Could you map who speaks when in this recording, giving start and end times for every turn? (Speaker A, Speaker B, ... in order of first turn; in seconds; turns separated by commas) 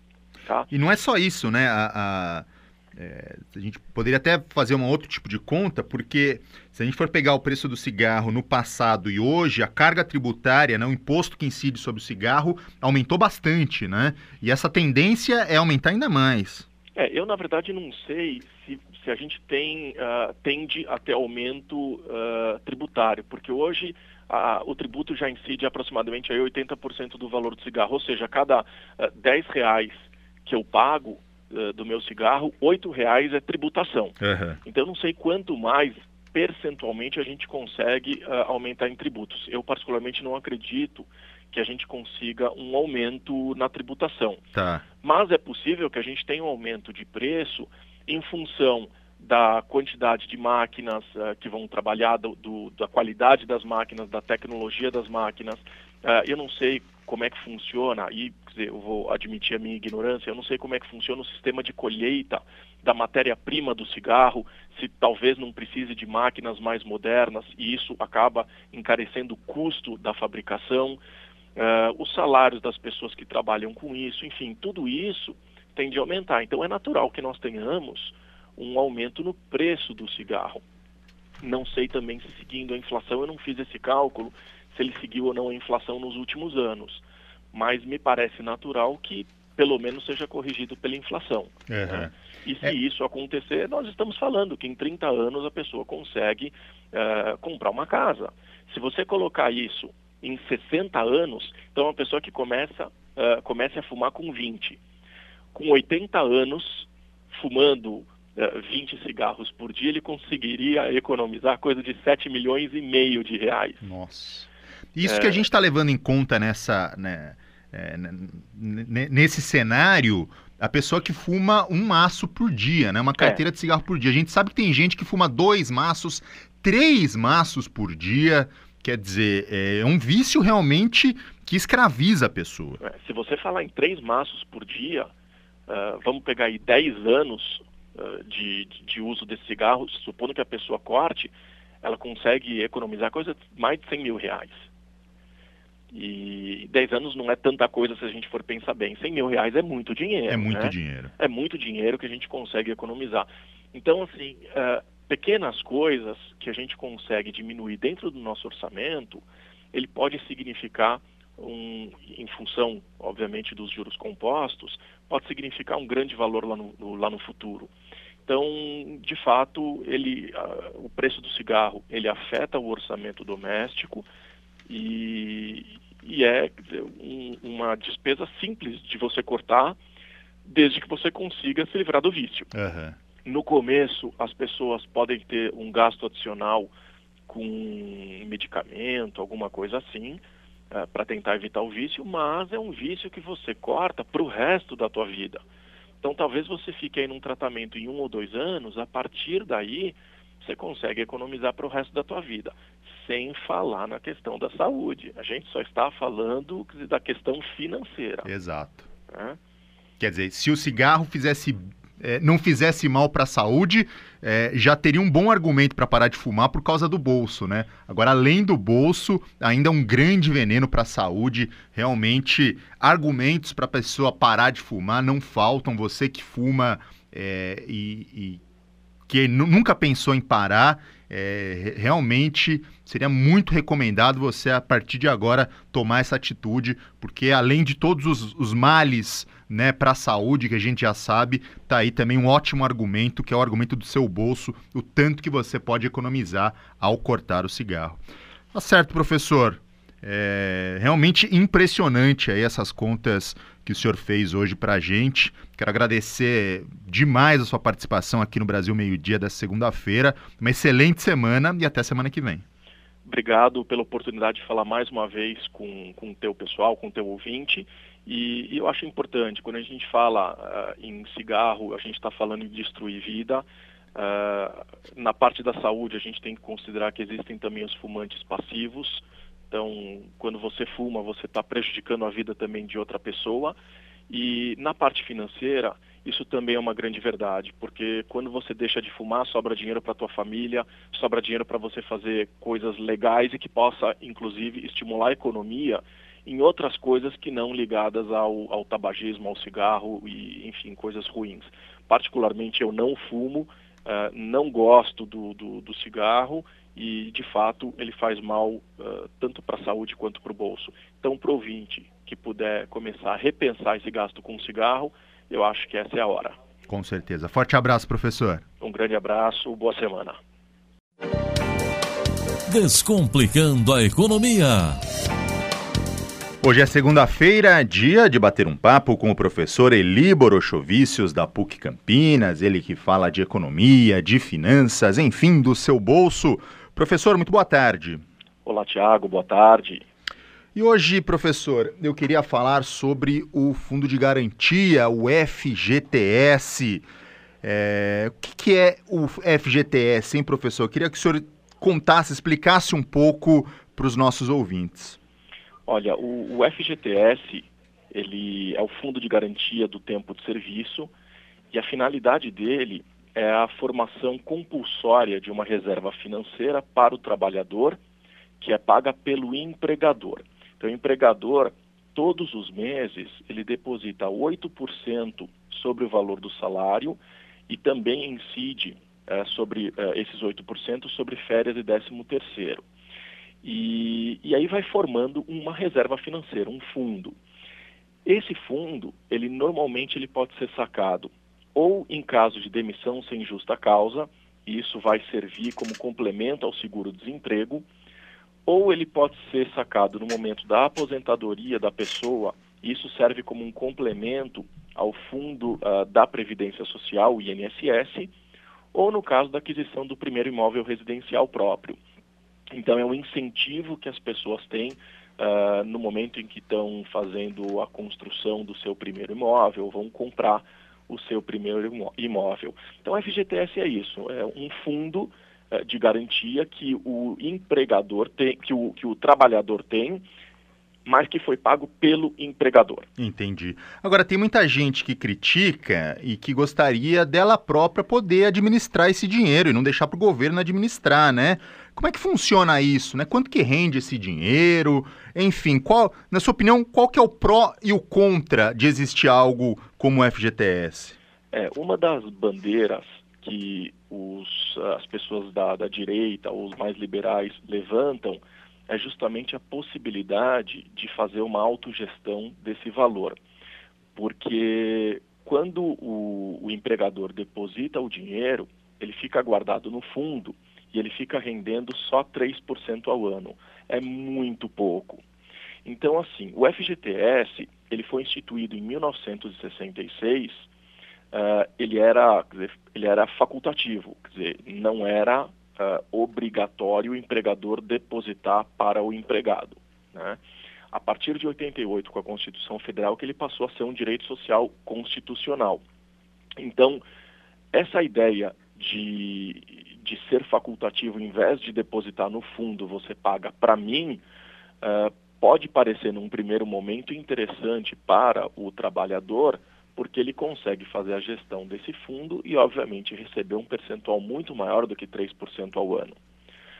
Speaker A: 0.7-16.6, Speaker B: 16.9-44.4, Speaker A: 34.2-34.6, Speaker A: 44.5-44.8, Speaker B: 45.0-71.0, Speaker B: 71.5-80.6, Speaker B: 81.4-104.8, Speaker A: 91.7-92.1, Speaker B: 105.5-113.8, Speaker A: 113.8-132.8, Speaker B: 115.0-115.5, Speaker B: 132.8-135.1, Speaker B: 135.7-144.7, Speaker B: 145.9-167.7, Speaker A: 150.3-151.1, Speaker B: 168.3-174.1, Speaker B: 174.7-179.8, Speaker B: 180.4-182.5, Speaker A: 182.5-183.0, Speaker B: 183.2-186.7, Speaker B: 187.3-195.4, Speaker B: 196.0-208.3, Speaker A: 208.2-208.9, Speaker B: 209.1-209.4, Speaker A: 210.0-228.4, Speaker A: 229.1-248.0, Speaker A: 248.5-262.4, Speaker B: 263.0-283.6, Speaker B: 284.1-316.4, Speaker A: 316.7-318.4, Speaker B: 318.6-320.2, Speaker C: 322.5-324.8, Speaker A: 326.4-338.0, Speaker B: 338.4-339.9, Speaker A: 340.5-346.8, Speaker A: 347.4-355.0, Speaker B: 355.7-360.9, Speaker B: 361.5-367.8, Speaker B: 368.4-382.6, Speaker B: 383.4-387.1, Speaker B: 388.0-397.6, Speaker B: 398.4-408.1, Speaker B: 408.7-411.8, Speaker B: 412.5-430.0, Speaker B: 430.9-432.9, Speaker A: 433.0-451.0, Speaker B: 451.3-463.2, Speaker B: 463.9-475.0, Speaker B: 475.6-480.5, Speaker B: 481.1-490.2, Speaker B: 490.7-495.6, Speaker B: 496.4-496.8, Speaker B: 497.5-504.0, Speaker B: 504.6-516.0